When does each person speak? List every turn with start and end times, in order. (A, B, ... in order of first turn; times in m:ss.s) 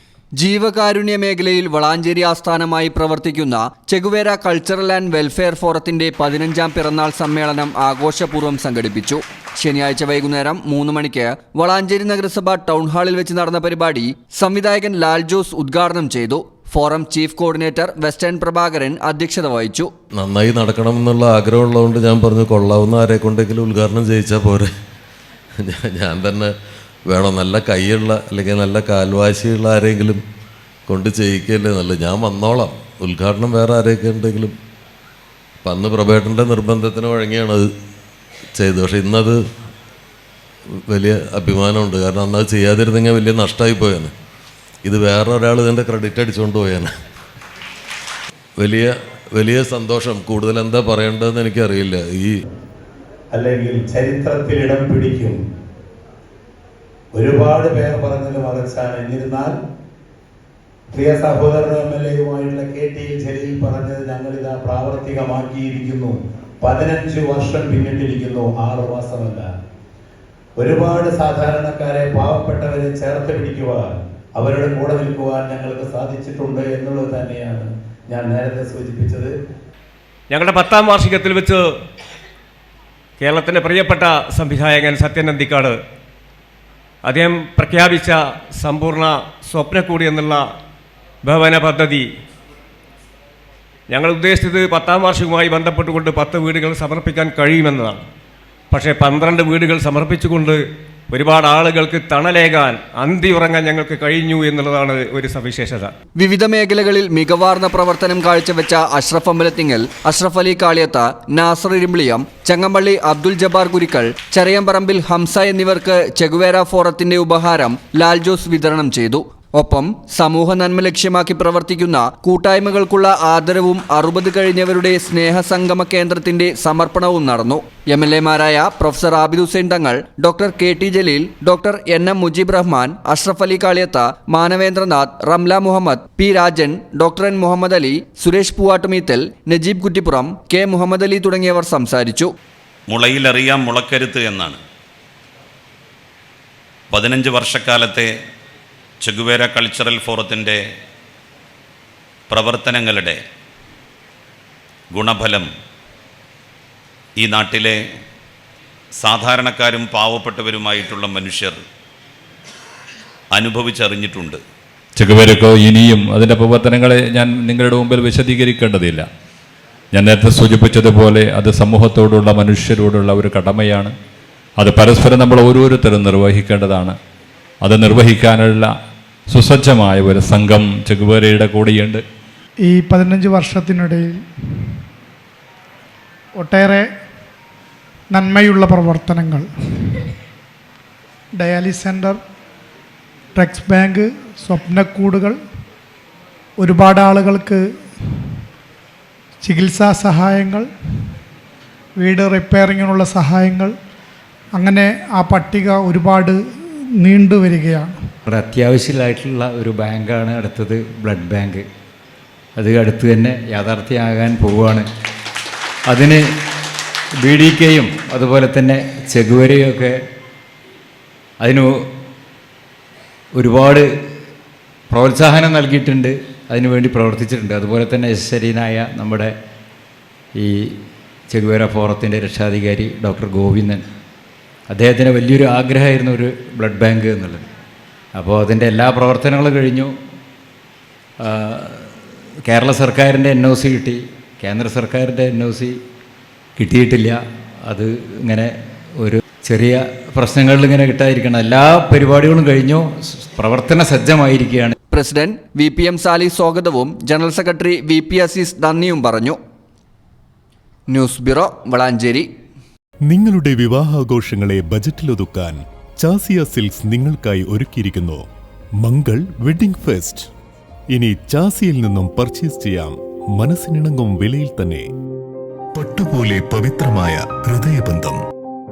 0:00.4-0:19.9 A
0:20.2-0:24.7 B
0:25.6-0:26.5 B
0:27.1-0:30.2 B
0:30.9-0:34.6 B
0:35.6-0:37.7 B
0:38.6-0:39.4 B
0:40.9-0:44.1 B
0:44.8-0:46.9 B
0:48.6-0:52.4 B
0:53.3-0:55.4 C
0:57.1-0:59.5 C
1:00.9-1:09.5 C
1:10.6-1:19.3 C
1:20.3-1:21.6 D
1:23.2-1:25.8 D
1:27.0-1:30.5 D
1:31.2-1:32.1 D
1:33.9-1:38.0 D
1:38.7-1:45.9 D
1:46.2-2:22.3 A
2:22.9-2:24.6 E
2:26.9-2:28.1 E
2:29.0-2:30.6 E
2:32.3-2:33.2 E
2:34.9-2:35.5 E
2:37.2-2:37.8 E
2:39.0-2:41.6 E
2:43.3-2:44.4 E
2:45.0-2:49.1 F
2:49.9-2:53.9 F
2:54.6-2:57.0 F
2:57.6-2:58.7 F
2:59.3-3:02.0 F
3:02.6-3:04.1 G
3:06.4-3:06.9 G
3:08.1-3:09.5 G
3:11.4-3:12.2 G
3:13.3-3:15.4 G
3:16.6-3:17.6 G
3:19.4-3:20.7 G
3:22.0-3:23.7 G
3:24.6-3:26.4 G
3:27.0-3:27.9 G
3:28.3-3:31.7 H
3:32.6-3:34.9 H
3:35.9-3:36.2 H
3:37.2-3:40.0 H
3:41.4-3:41.7 H
3:43.4-3:43.9 H
3:44.9-3:49.3 H
3:50.4-3:50.8 H
3:51.3-3:53.9 H
3:54.7-3:57.5 H
3:58.2-3:59.9 H
4:01.2-4:02.0 H
4:02.5-4:05.8 H
4:06.6-4:07.2 H
4:07.7-4:14.8 H
4:14.9-4:19.4 A
4:20.9-4:22.3 A
4:23.1-4:28.2 I
4:28.8-4:30.3 I
4:30.9-4:34.9 I
4:35.7-4:38.2 I